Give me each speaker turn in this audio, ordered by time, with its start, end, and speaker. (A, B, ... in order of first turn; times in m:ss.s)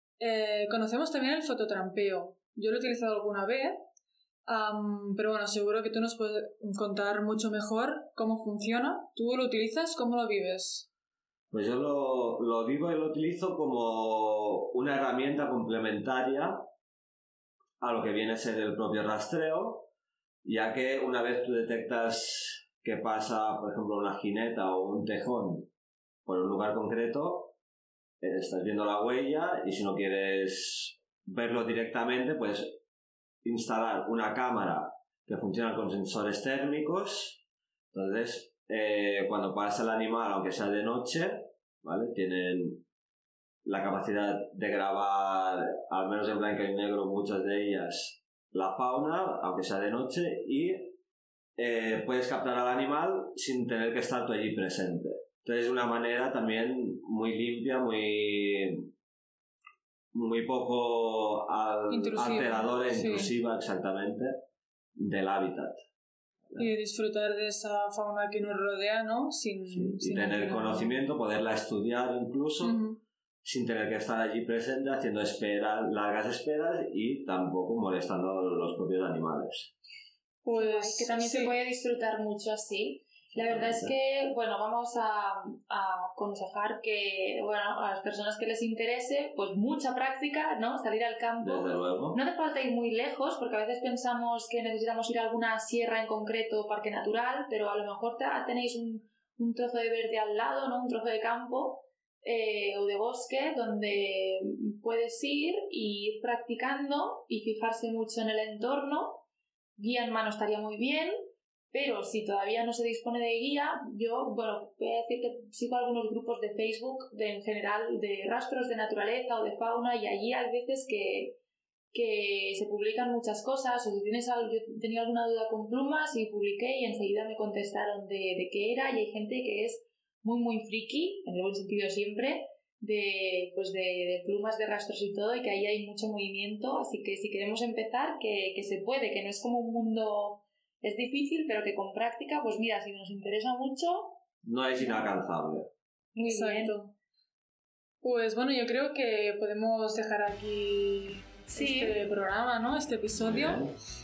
0:00.2-0:03.8 A
0:04.5-0:10.9 A
0:11.5-0:16.6 B
0:17.8-0:19.9 B
0:20.4-0:25.7 B
0:26.2-0:27.5 B
0:28.2-0:32.8 B
0:33.4-0:37.4 B
0:37.9-0:42.8 B
0:43.6-0:51.0 B
0:51.6-0:58.9 B
1:00.1-1:04.4 B
1:01.9-1:03.3 A
1:05.0-1:05.8 B
1:06.6-1:11.0 A
1:09.7-1:12.8 B
1:12.6-1:13.0 A
1:13.4-1:19.7 B
1:20.4-1:21.5 A
1:20.5-1:49.2 C
1:23.3-1:23.9 B
1:31.4-1:32.2 B
1:49.8-1:51.1 C
1:51.7-2:01.4 C
2:01.9-2:24.2 C
2:24.4-2:25.7 B
2:26.1-2:26.7 C
2:26.2-2:26.9 A
2:28.0-2:33.6 A
2:31.5-2:32.0 C
2:33.1-2:33.8 B